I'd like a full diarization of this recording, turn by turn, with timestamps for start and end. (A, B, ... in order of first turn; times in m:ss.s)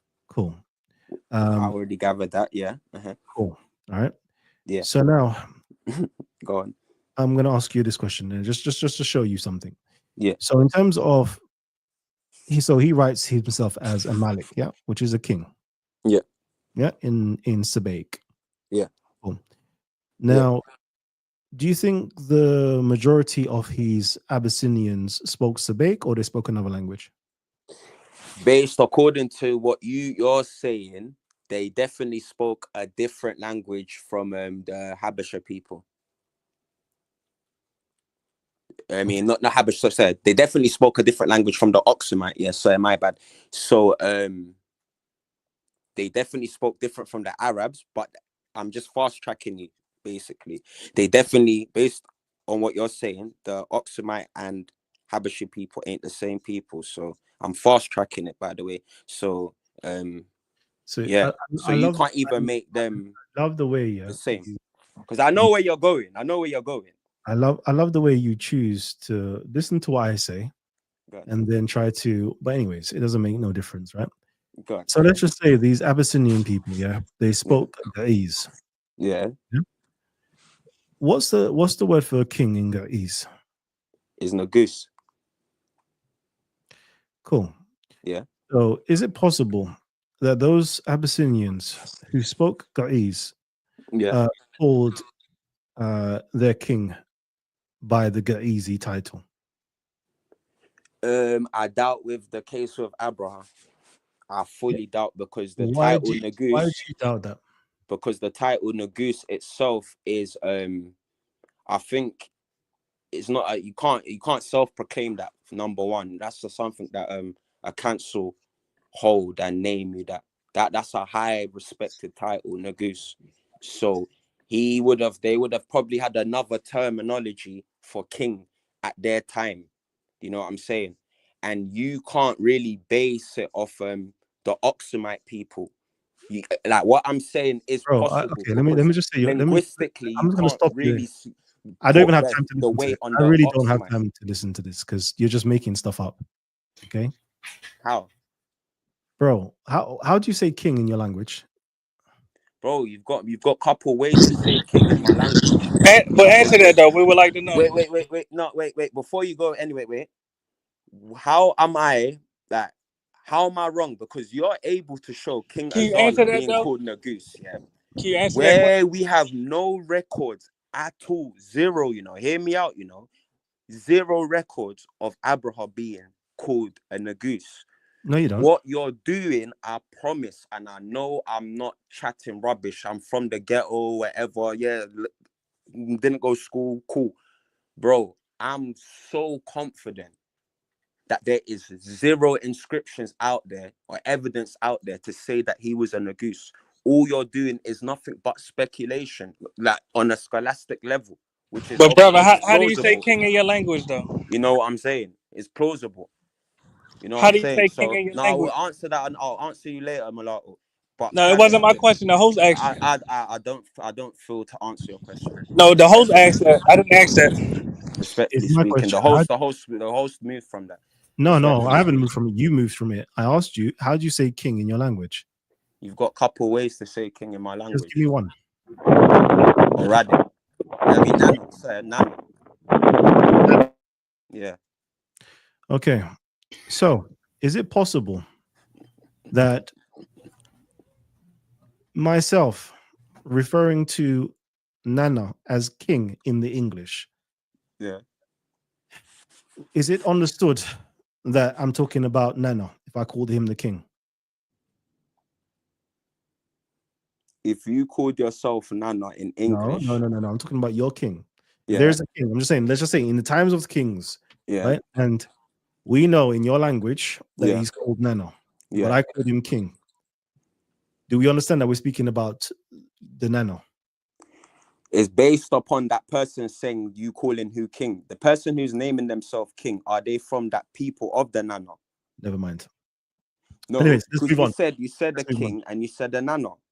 0:00.3-0:00.6 A
0:01.3-0:01.8 A
0:01.4-0:03.2 B
0:03.3-0:04.1 A
0:04.8-0:05.4 A
0:05.9-0:06.7 B
0:07.2-0:09.8 A
0:10.4-0:11.4 A
0:12.5-0:15.5 A
0:16.8-0:18.2 A
0:20.2-0:20.6 A
0:21.5-0:27.1 A
0:28.4-0:35.8 B
0:38.9-0:44.6 B
0:46.0-1:00.3 B
1:00.9-1:04.6 A
1:01.0-1:03.2 B
1:04.1-1:04.5 B
1:05.1-1:06.9 B
1:07.2-1:10.5 A
1:11.3-1:14.1 A
1:14.6-1:15.0 B
1:14.9-1:18.5 A
1:19.0-1:19.3 B
1:21.0-1:23.3 A
1:24.2-1:24.9 B
1:27.2-1:27.5 A
1:28.5-1:33.4 A
1:33.9-1:34.2 B
1:34.1-1:35.0 A
1:35.8-1:37.0 A
1:37.8-1:39.2 A
1:41.0-1:43.5 B
1:44.3-1:46.7 B
1:45.6-1:47.4 A
1:47.9-1:50.9 B
1:51.7-1:52.3 B
1:53.1-1:58.4 B
1:58.9-2:09.7 B
2:10.2-2:15.7 B
2:16.3-2:21.3 B
2:17.9-2:21.1 A
2:21.8-2:26.2 A
2:21.9-2:24.0 B
2:26.8-2:27.1 A
2:27.8-2:28.1 B
2:29.2-2:31.5 A
2:32.6-2:36.7 B
2:35.8-2:37.7 C
2:37.5-2:40.1 B
2:40.9-2:47.6 B
2:45.7-2:46.7 C
2:48.0-2:48.7 C
2:48.3-2:53.1 B
2:53.7-2:57.6 B
2:58.0-2:58.5 A
2:58.4-3:05.1 B
3:05.7-3:07.2 B
3:07.8-3:10.1 B
3:11.1-3:23.0 B
3:21.8-3:24.1 C
3:24.3-3:26.1 B
3:27.0-3:31.8 B
3:27.2-3:28.5 C
3:31.1-3:32.8 C
3:32.5-3:36.1 B
3:35.6-3:37.3 C
3:38.0-3:41.9 B
3:38.3-3:39.3 A
3:41.2-3:45.2 A
3:45.8-3:48.0 B
3:47.7-3:48.3 A
3:49.8-3:50.2 B
3:50.9-3:52.2 B
3:54.3-3:54.6 B
3:55.7-3:56.0 A
3:56.7-3:58.2 A
3:59.3-3:59.7 A
4:02.0-4:07.1 A
4:09.8-4:10.6 A
4:11.2-4:13.8 A
4:17.4-4:20.0 B
4:19.5-4:25.3 A
4:21.7-4:22.0 B
4:24.5-4:24.8 B
4:25.9-4:29.8 A
4:27.4-4:27.6 B
4:28.7-4:29.0 B
4:31.1-4:33.6 A
4:34.9-4:41.8 B
4:42.2-4:42.7 A
4:43.7-4:46.6 B
4:43.8-4:44.6 A
4:45.2-4:45.6 A